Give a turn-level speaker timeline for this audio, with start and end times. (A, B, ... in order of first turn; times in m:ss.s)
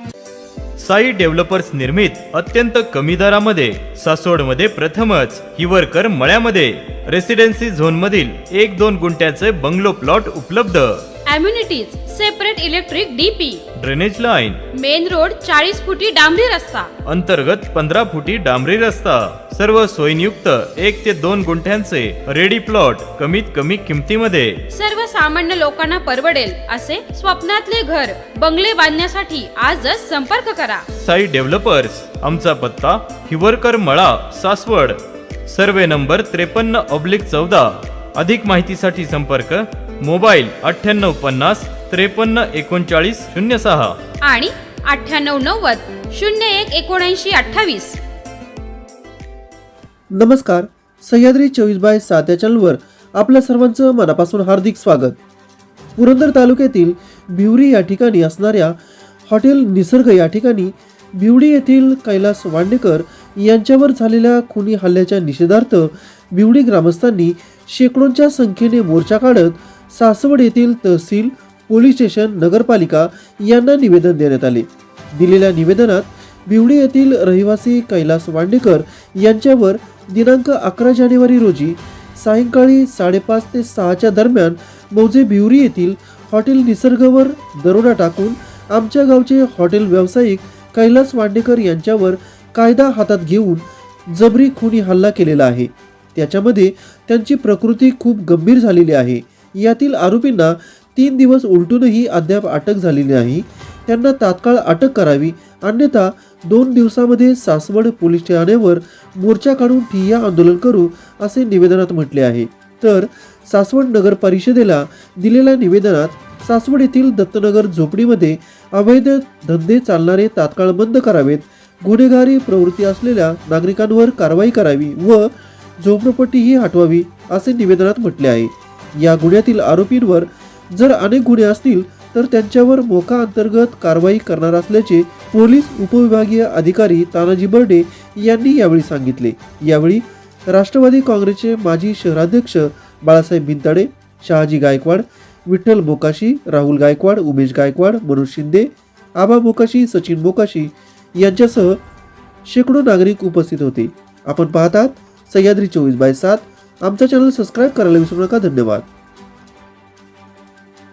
0:00.8-0:11.0 A
0:11.3-0:13.6 B
0:13.8-0:14.6 A
0:14.7-0:16.9 B
0:17.0-0:24.6 A
0:24.7-0:30.9 B
0:31.0-0:44.0 A
0:44.2-0:48.0 B
0:50.2-0:55.2 C
0:56.0-0:58.8 C
0:59.3-2:31.8 C
2:32.4-2:38.8 C